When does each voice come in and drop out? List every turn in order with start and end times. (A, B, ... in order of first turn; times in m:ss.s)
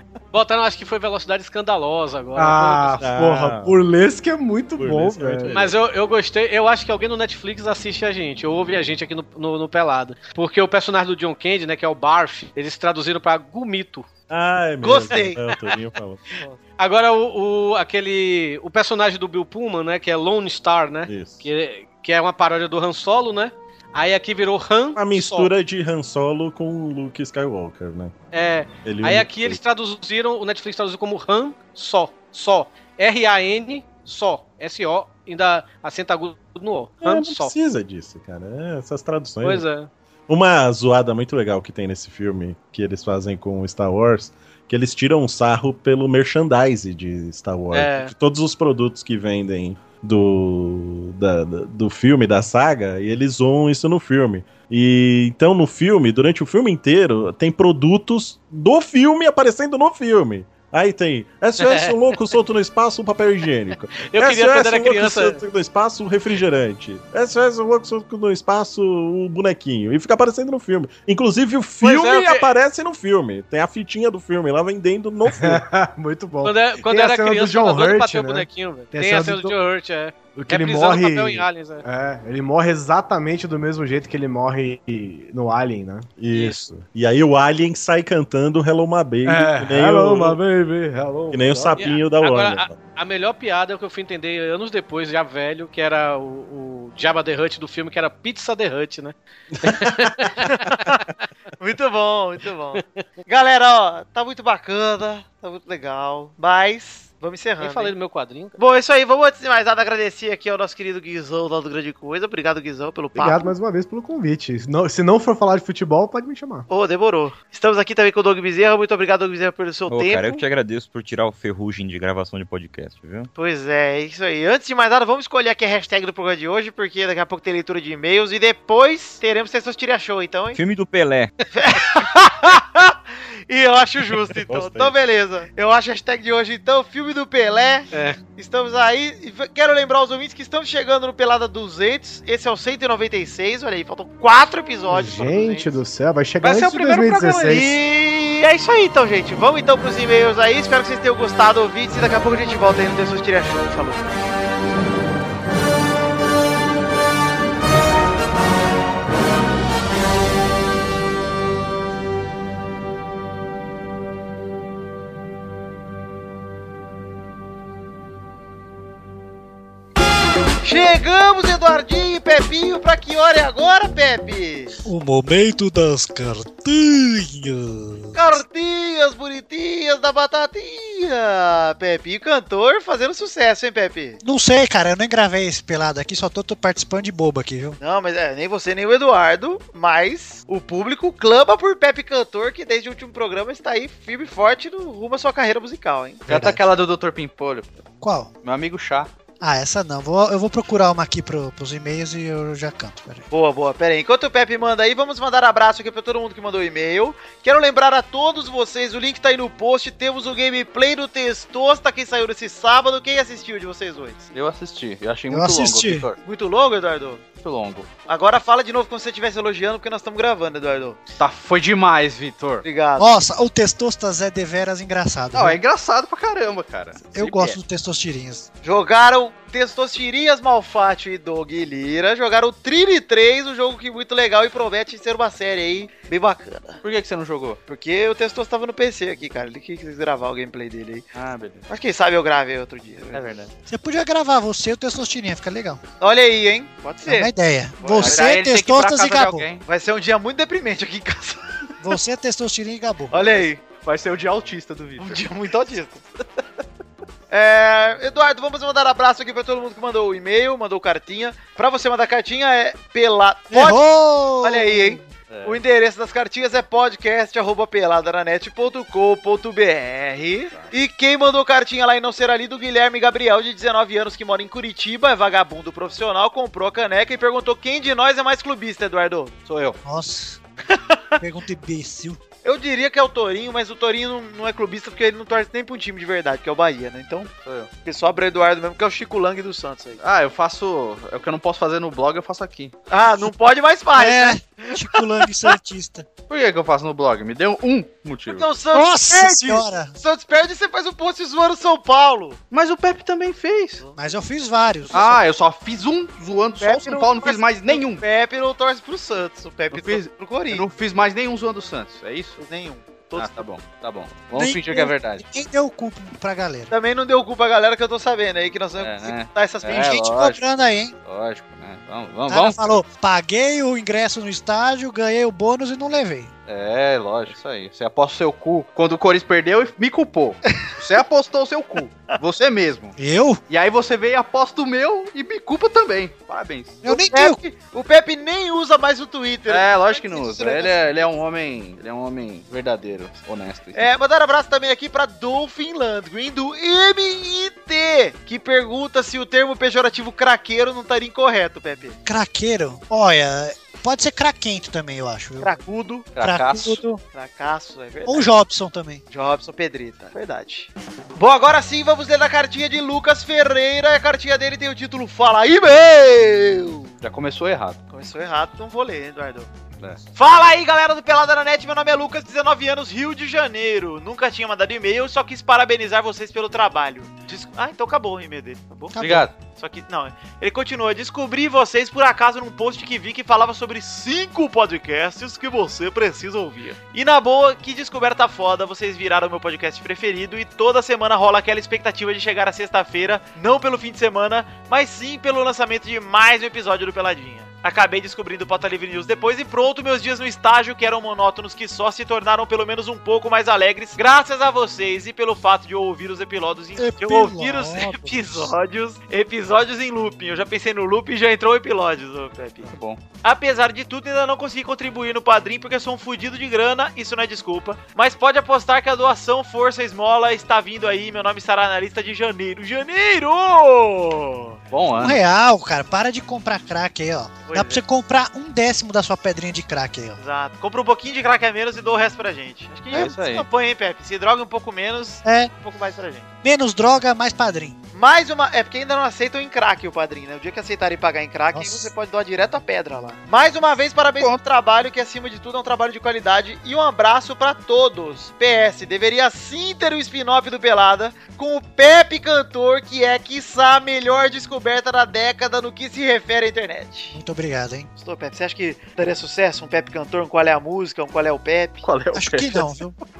0:00.3-0:03.0 A
0:02.4-0:05.5 B
0:03.0-0:03.8 C
0:04.8-0:05.8 C
0:05.5-0:14.1 A
0:14.3-0:16.2 C
0:14.8-0:15.4 D
0:16.8-0:25.5 A
0:21.1-0:21.5 C
0:25.0-0:28.1 C
0:28.3-0:37.5 A
0:28.8-0:29.6 C
0:37.0-0:39.6 C
0:39.4-0:39.9 A
0:40.3-1:15.6 C
0:47.7-0:48.1 A
1:01.6-1:02.2 A
1:04.0-1:05.4 A
1:11.8-1:12.5 A
1:15.3-1:19.6 B
1:16.4-1:21.8 A
1:20.4-1:26.1 B
1:26.2-1:30.4 C
1:26.3-1:26.7 A
1:29.2-1:31.8 B
1:31.3-1:32.8 C
1:31.8-1:40.7 A
1:39.6-1:40.1 C
1:40.6-1:41.0 D
1:41.6-1:47.9 D
1:47.6-1:48.6 A
1:48.6-1:53.5 D
1:53.1-1:56.7 B
1:56.7-2:00.4 D
1:59.9-2:03.3 E
2:03.3-2:10.6 D
2:10.5-2:11.3 E
2:11.5-2:25.8 D
2:14.4-2:14.9 C
2:17.9-2:18.2 A
2:24.9-2:27.8 B
2:26.4-2:27.6 A
2:27.4-2:34.2 D
2:50.6-2:54.8 D
2:54.8-2:58.2 F
2:58.1-3:04.2 D
3:04.2-3:07.8 F
3:07.8-3:16.2 D
3:16.3-3:16.6 F
3:16.3-3:17.8 G
3:18.0-3:18.3 F
3:18.4-3:19.1 G
3:19.4-3:23.2 F
3:23.3-3:34.3 D
3:34.3-3:36.2 G
3:35.3-3:36.1 F
3:36.2-3:37.2 D
3:37.4-3:37.9 G
3:38.1-3:41.0 D
3:41.2-3:42.6 G
3:42.6-3:43.2 D
3:43.0-3:45.6 F
3:45.3-3:47.6 G
3:47.0-3:48.5 F
3:48.6-3:56.8 D
3:56.8-3:57.6 G
3:57.7-4:01.0 D
4:01.1-4:01.6 G
4:01.7-4:03.3 D
4:03.1-4:03.5 G
4:03.7-4:05.8 F
4:06.0-4:08.3 D
4:07.0-4:09.5 F
4:08.0-4:09.6 G
4:09.6-4:11.4 D
4:11.8-4:13.4 F
4:13.1-4:13.6 D
4:13.6-4:15.2 G
4:15.0-4:16.0 D
4:17.3-4:23.8 D
4:23.5-4:25.1 F
4:24.4-4:39.3 D
4:25.3-4:25.6 G
4:39.4-4:39.8 G
4:39.8-4:40.4 F
4:40.7-4:41.0 D
4:41.2-4:42.2 F
4:42.4-4:47.3 D
4:47.4-4:47.7 G
4:47.8-4:50.0 D
4:50.0-4:52.7 G
4:52.9-4:55.4 D
4:53.9-4:56.1 F
4:56.3-4:58.5 G
4:58.3-5:02.4 D
4:58.7-4:59.9 F
5:02.5-5:03.8 G
5:04.0-5:05.2 F
5:04.9-5:05.2 D
5:04.9-5:08.0 G
5:06.6-5:10.7 D
5:09.7-5:12.4 G
5:12.4-5:13.4 D
5:13.1-5:15.2 G
5:14.3-5:16.7 F
5:16.7-5:20.1 D
5:18.8-5:20.4 G
5:19.7-5:20.9 F
5:21.0-5:22.8 G
5:22.3-5:26.3 F
5:26.5-5:32.9 G
5:33.0-5:33.4 F
5:33.5-5:36.8 G
5:36.8-5:37.4 F
5:36.8-5:41.0 D
5:39.5-5:43.9 G
5:43.7-5:52.0 D
5:52.0-5:55.6 F
5:55.4-5:56.1 D
5:56.1-5:56.8 G
5:56.2-5:57.0 F
5:57.1-5:58.3 D
5:58.0-5:59.0 F
5:59.1-6:06.9 D
6:07.0-6:07.8 G
6:07.9-6:09.5 D
6:10.1-6:19.0 D
6:18.9-6:19.3 F
6:19.0-6:19.3 G
6:19.5-6:52.7 D
6:46.8-6:48.5 F
6:52.6-6:53.0 G
6:53.2-7:04.6 D
7:04.7-7:05.2 G
7:05.0-7:10.2 F
7:07.5-7:07.8 D
7:10.2-7:16.3 D
7:12.9-7:13.5 G
7:15.2-7:15.5 F
7:16.4-7:17.8 F
7:17.9-7:37.2 D
7:21.5-7:21.9 F
7:37.1-7:37.9 F
7:38.0-7:41.8 D
7:41.8-7:42.8 G
7:42.1-7:42.9 F